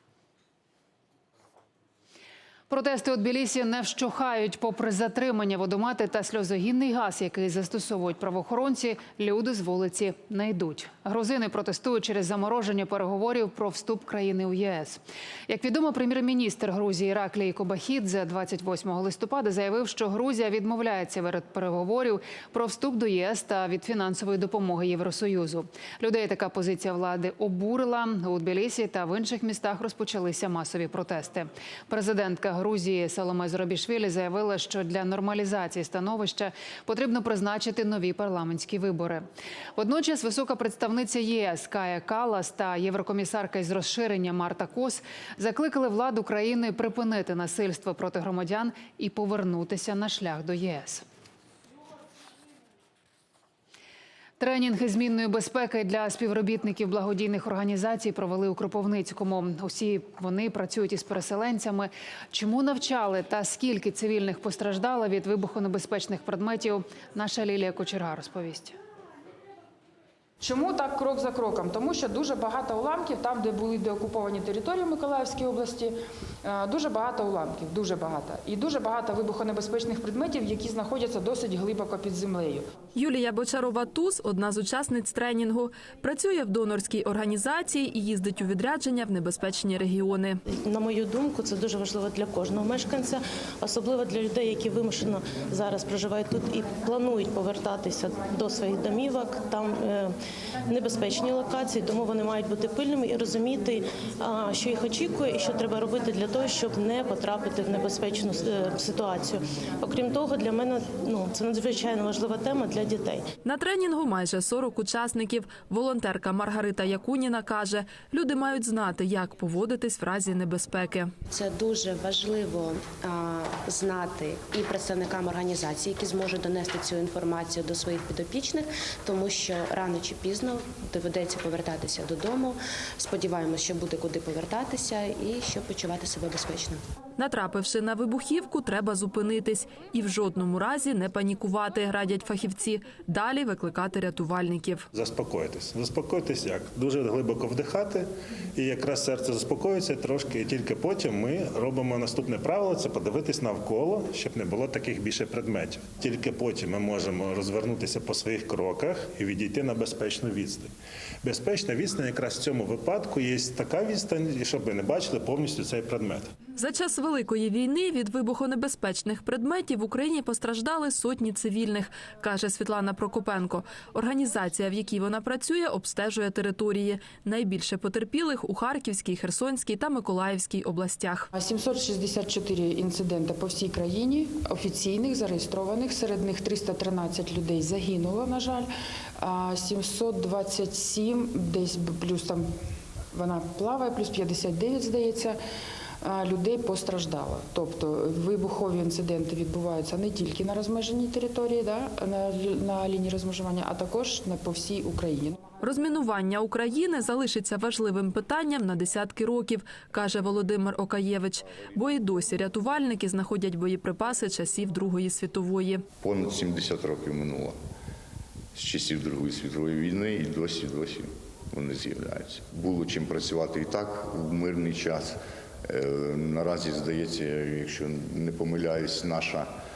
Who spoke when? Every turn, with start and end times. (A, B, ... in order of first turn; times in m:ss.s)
0:02.7-0:39.2 A
0:39.8-0:51.0 A
0:54.4-1:08.8 A
1:10.4-1:22.7 B
1:22.9-1:30.4 C
1:30.6-1:40.1 D
1:40.7-1:53.3 D
1:53.4-2:01.1 C
2:01.3-2:16.8 E
2:17.2-2:24.9 C
2:24.9-2:40.7 F
2:41.2-2:46.3 F
2:46.6-3:01.3 C
3:01.3-3:12.5 B
3:13.1-3:15.4 B
3:16.0-3:25.4 B
3:25.6-3:35.8 C
3:36.0-3:37.5 G
3:38.5-3:49.5 G